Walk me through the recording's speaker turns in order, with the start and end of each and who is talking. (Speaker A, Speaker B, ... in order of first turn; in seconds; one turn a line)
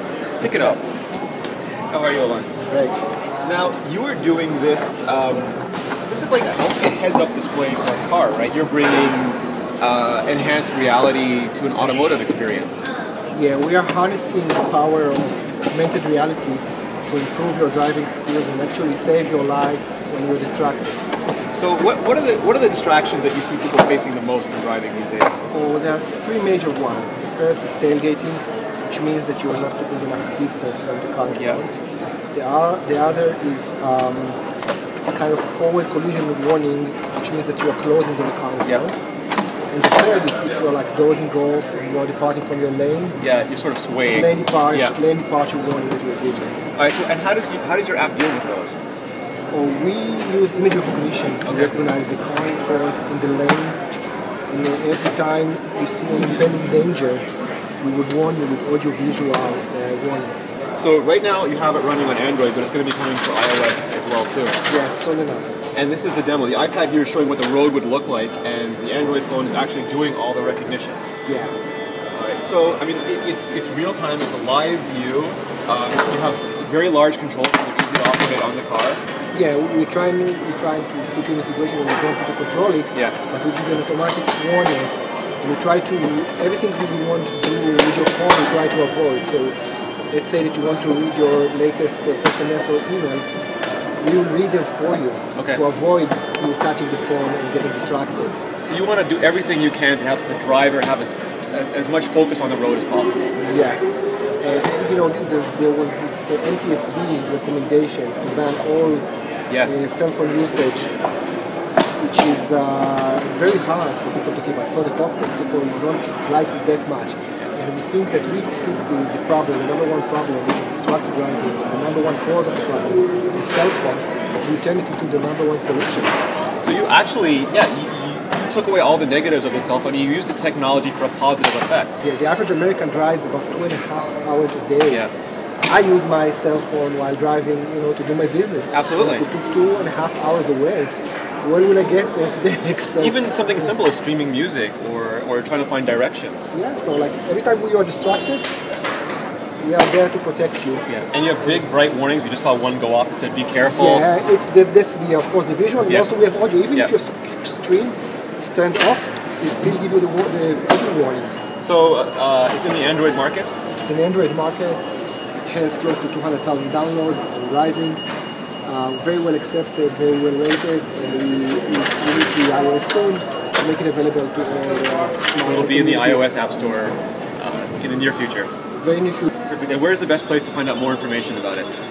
Speaker A: 0.4-0.8
Speaker B: 0.4-0.8
Speaker A: 1.9-2.5
Speaker B: 2.7-3.0
Speaker A: 3.4-5.5
Speaker A: 6.1-12.8
Speaker B: 13.3-21.0
Speaker A: 21.5-25.4
Speaker B: 25.5-31.7
Speaker A: 31.3-31.7
Speaker B: 32.3-34.4
Speaker B: 35.0-39.0
Speaker B: 39.7-43.2
Speaker A: 43.2-45.0
Speaker B: 44.0-46.6
Speaker A: 46.8-48.8
Speaker B: 49.5-53.8
Speaker A: 51.5-51.7
Speaker B: 54.5-57.2
Speaker B: 57.8-60.5
Speaker A: 60.8-64.6
Speaker B: 64.7-65.5
Speaker A: 65.7-71.0
Speaker B: 71.2-71.5
Speaker A: 72.1-79.0
Speaker B: 79.3-89.5
Speaker B: 90.1-93.3
Speaker B: 94.0-98.4
Speaker A: 95.3-95.6
Speaker A: 98.6-103.3
Speaker B: 103.4-103.8
Speaker B: 104.4-109.0
Speaker A: 109.5-109.8
Speaker B: 109.6-110.9
Speaker B: 112.0-126.2
Speaker A: 126.6-132.0
Speaker B: 132.0-135.0
Speaker B: 135.6-143.7
Speaker A: 138.7-139.3
Speaker A: 143.0-146.5
Speaker B: 146.5-148.5
Speaker B: 149.6-150.8
Speaker A: 150.9-154.1
Speaker B: 153.7-161.4
Speaker A: 161.6-163.5
Speaker B: 163.8-164.8
Speaker B: 165.4-168.0
Speaker B: 168.6-176.3
Speaker A: 175.4-178.5
Speaker B: 178.8-179.3
Speaker A: 179.5-181.7